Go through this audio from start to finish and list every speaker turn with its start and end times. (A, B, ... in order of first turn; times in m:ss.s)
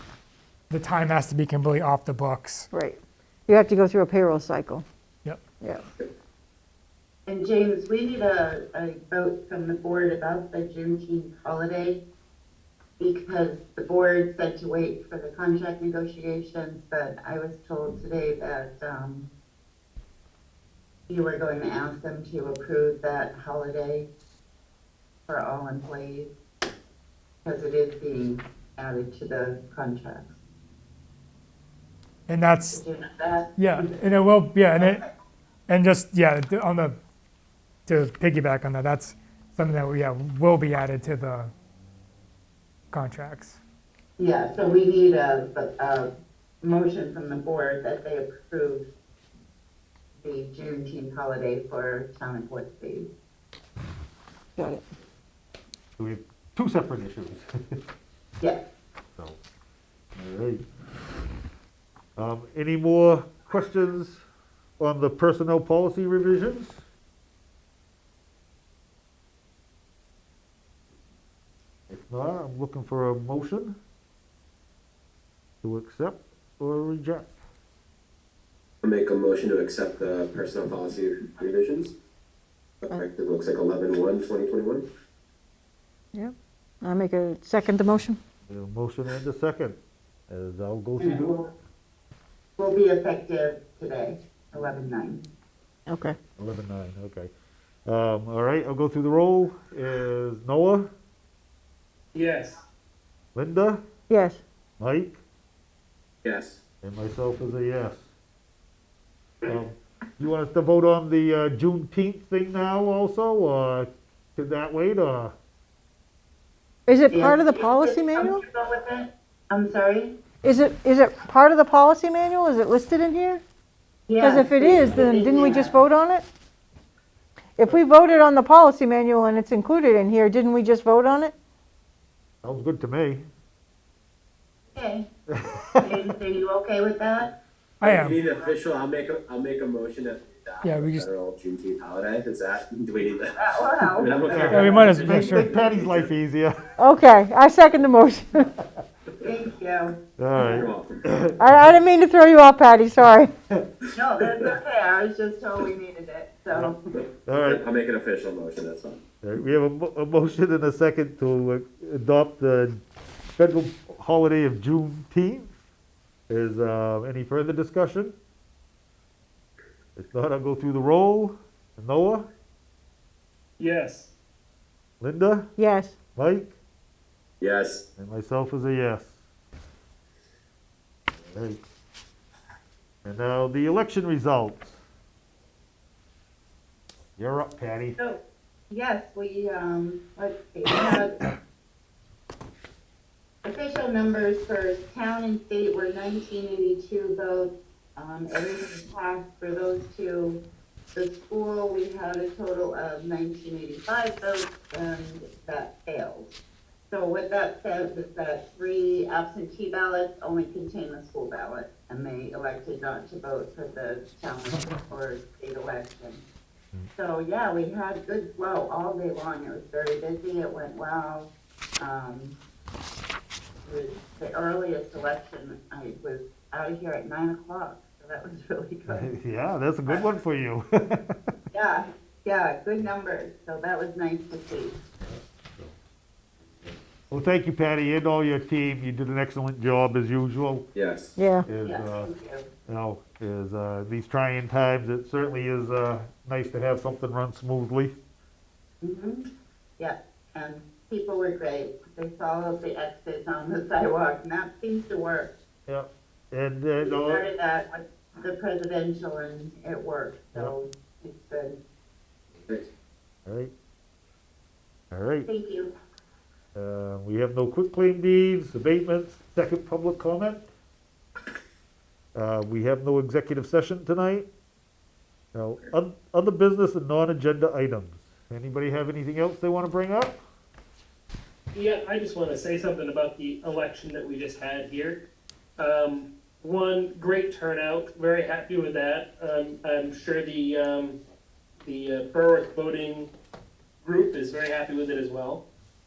0:00.7-0:02.7 A
0:02.7-0:04.8 B
0:05.2-0:05.5 A
0:05.6-0:05.8 B
0:07.2-0:12.0 C
0:13.0-0:19.3 C
0:21.1-0:24.1 C
0:25.3-0:26.3 C
0:27.4-0:30.3 C
0:32.3-0:32.8 A
0:32.7-0:33.9 C
0:33.6-0:35.0 A
0:34.8-0:35.0 C
0:35.7-0:37.0 A
0:37.9-0:41.5 A
0:42.9-0:43.6 A
0:44.2-0:46.1 C
0:46.6-0:48.9 C
0:50.2-0:53.1 C
0:54.6-0:54.8 B
0:56.0-0:57.8 D
1:00.1-1:00.6 D
1:02.2-1:04.2 D
1:04.8-1:06.8 D
1:11.9-1:13.8 D
1:15.6-1:17.4 D
1:18.8-1:21.9 E
1:22.8-1:24.8 E
1:26.1-1:28.2 B
1:28.5-1:29.8 D
1:30.3-1:31.4 D
1:31.0-1:31.5 C
1:32.6-1:35.3 C
1:35.9-1:36.2 B
1:36.4-1:37.3 D
1:37.8-1:40.9 D
1:42.1-1:42.6 F
1:43.3-1:43.8 D
1:44.1-1:44.4 B
1:44.8-1:45.2 D
1:46.2-1:46.6 E
1:46.8-1:48.1 D
1:49.4-1:55.3 D
1:56.9-1:58.4 B
1:57.1-2:00.2 C
2:00.4-2:03.4 B
2:04.1-2:05.8 C
2:04.2-2:06.2 B
2:07.6-2:11.3 B
2:12.4-2:13.3 D
2:14.7-2:15.1 C
2:15.3-2:16.0 D
2:15.8-2:17.3 C
2:17.8-2:18.2 A
2:17.8-2:23.3 E
2:20.6-2:21.1 A
2:23.3-2:24.6 C
2:23.9-2:26.1 E
2:24.2-2:26.5 D
2:24.5-2:25.5 A
2:26.8-2:28.5 B
2:29.2-2:30.0 C
2:30.2-2:31.5 D
2:30.4-2:31.0 E
2:31.4-2:33.3 B
2:33.9-2:36.8 C
2:36.9-2:39.0 E
2:37.2-2:37.6 D
2:39.2-2:42.8 D
2:43.4-2:45.5 D
2:46.3-2:48.1 D
2:50.0-2:52.3 D
2:53.6-2:54.1 F
2:55.0-2:55.5 D
2:55.6-2:56.0 B
2:56.1-2:56.5 D
2:57.4-2:57.8 E
2:58.0-2:59.2 D
3:01.1-3:01.6 D
3:03.0-3:04.8 D
3:07.2-3:08.0 D
3:08.0-3:11.3 C
3:13.4-3:26.4 C
3:26.9-3:36.2 C
3:36.9-3:42.4 C
3:43.6-3:49.1 C
3:48.9-3:51.0 D
3:51.5-3:54.8 C
3:55.0-3:55.7 D
3:56.6-4:00.7 D
4:00.7-4:01.1 E
4:01.2-4:01.5 B
4:01.4-4:02.1 D
4:01.6-4:02.5 C
4:02.7-4:08.0 D
4:08.8-4:09.2 C
4:09.8-4:15.3 C
4:15.7-4:17.3 D
4:16.8-4:21.6 C
4:23.2-4:23.5 D
4:24.9-4:25.3 D
4:25.2-4:25.7 C
4:26.5-4:30.5 D
4:32.1-4:34.3 D
4:35.3-4:40.2 D
4:41.5-4:45.0 F
4:45.6-4:51.0 F
4:51.6-4:53.1 F
4:53.8-4:55.4 F